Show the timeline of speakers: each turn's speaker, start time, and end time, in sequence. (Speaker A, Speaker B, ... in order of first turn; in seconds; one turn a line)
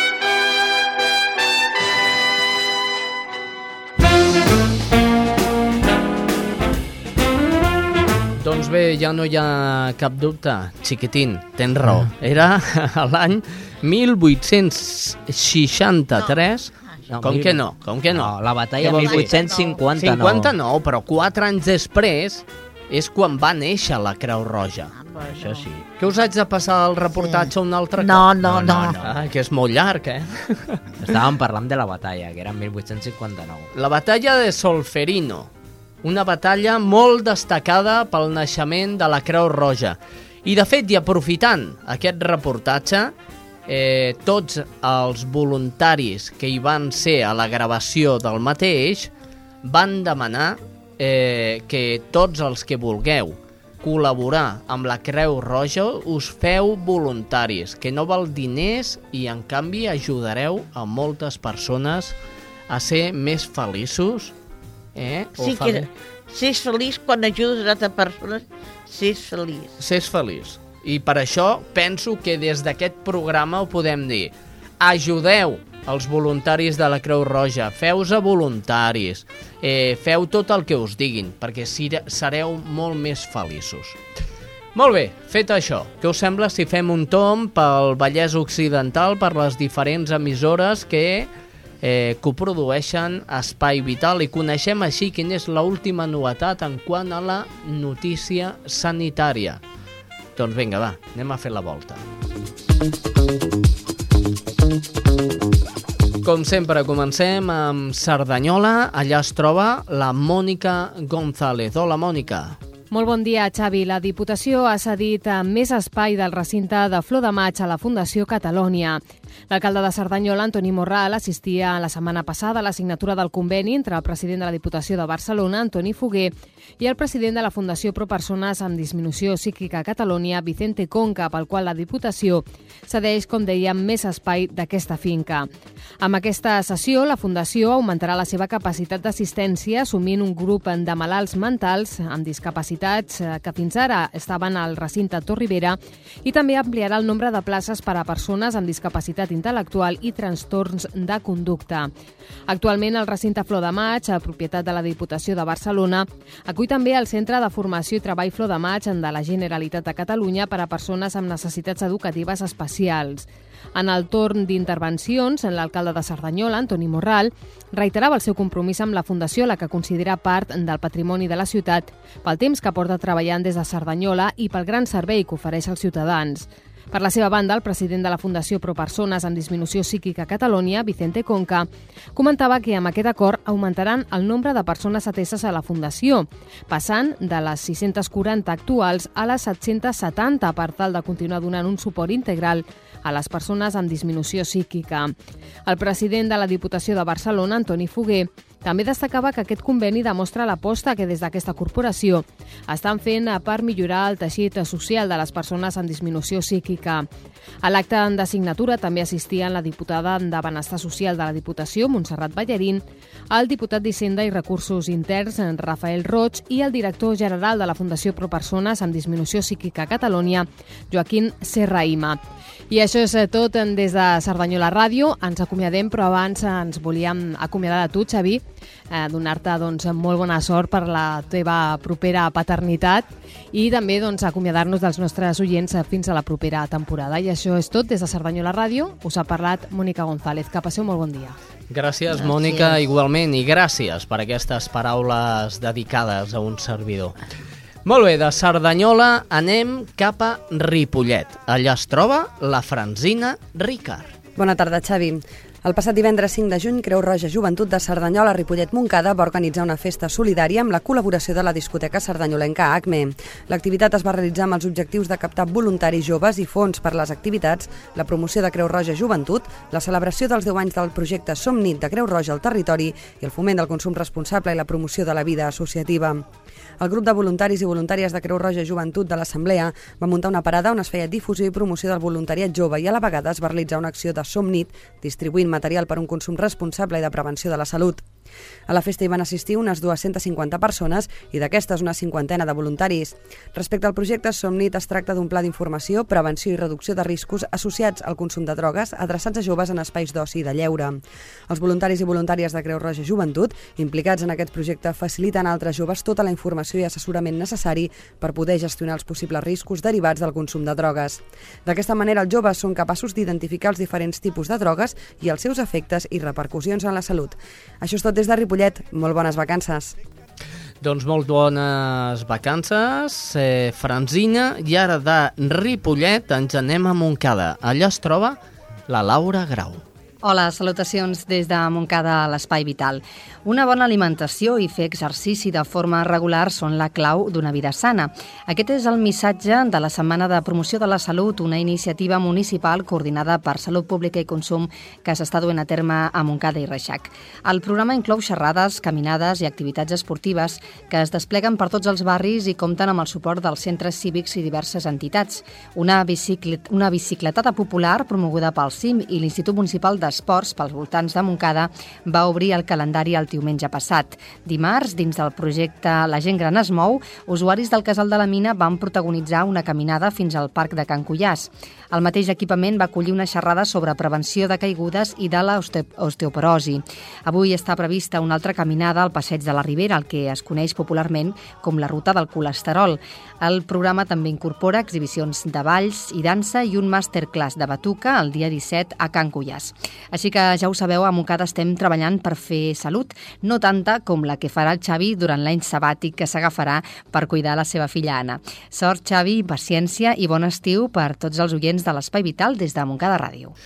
Speaker A: 8.4-19.3
Speaker B: 11.8-12.1
Speaker C: 16.1-17.4
Speaker B: 17.1-20.5
Speaker C: 18.8-19.8
Speaker A: 19.9-24.9
Speaker C: 24.9-25.7
Speaker B: 25.4-25.9
Speaker A: 26.0-30.8
Speaker C: 27.1-29.0
Speaker B: 28.4-29.1
Speaker B: 31.0-33.7
Speaker A: 33.7-35.5
Speaker A: 36.0-43.1
Speaker A: 43.7-49.1
Speaker A: 49.6-62.1
Speaker A: 62.7-64.3
Speaker A: 64.9-65.9
Speaker C: 65.4-69.7
Speaker A: 69.8-84.0
Speaker A: 84.7-91.3
Speaker A: 91.8-99.6
Speaker A: 100.3-102.0
Speaker A: 106.2-112.6
Speaker D: 112.9-135.5
Speaker D: 136.0-151.9
Speaker D: 152.5-195.1
Speaker D: 195.7-207.1
Speaker D: 207.6-222.2
Speaker D: 222.7-241.4
Speaker A: 241.7-247.2
Speaker C: 242.1-242.8
Speaker A: 247.8-254.1
Speaker E: 254.3-276.2
Speaker E: 276.8-288.1
Speaker E: 288.7-320.0
Speaker A: 320.8-329.8
Speaker F: 330.2-403.5